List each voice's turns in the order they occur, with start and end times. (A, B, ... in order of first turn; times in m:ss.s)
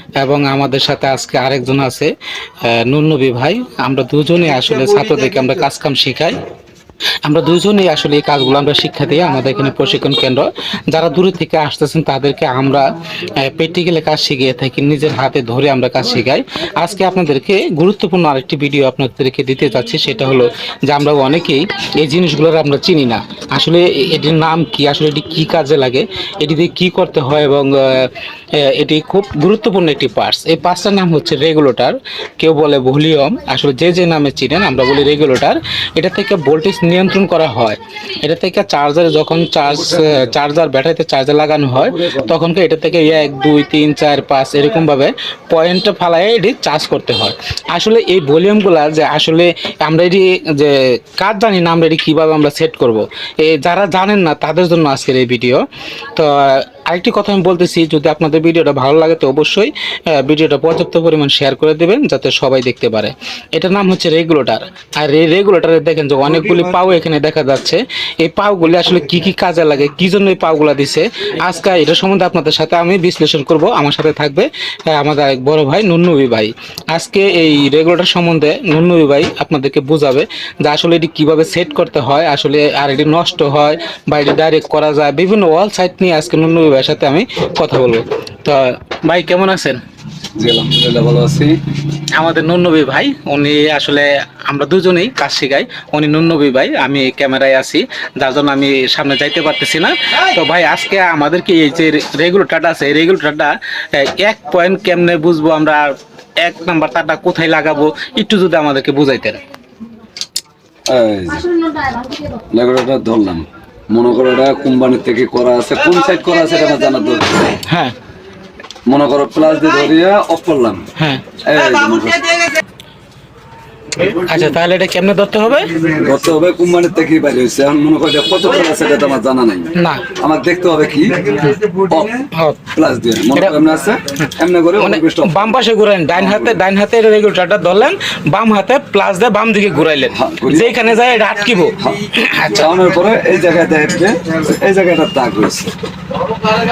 0:00.2-0:06.4 A
0:07.2-1:29.8 A
0:41.8-0:42.4 B
1:30.4-1:31.6 B
1:32.1-1:49.4 A
1:50.9-1:51.6 B
1:52.3-1:57.6 B
1:57.7-1:57.9 A
1:58.9-2:00.9 B
2:01.0-2:01.2 A
2:01.4-2:02.5 B
2:04.0-2:05.8 A
2:05.9-2:15.5 B
2:09.7-2:10.1 A
2:12.3-2:12.7 A
2:13.3-2:13.6 A
2:14.8-2:22.8 A
2:16.2-2:16.6 B
2:20.1-2:20.8 B
2:21.8-2:25.8 B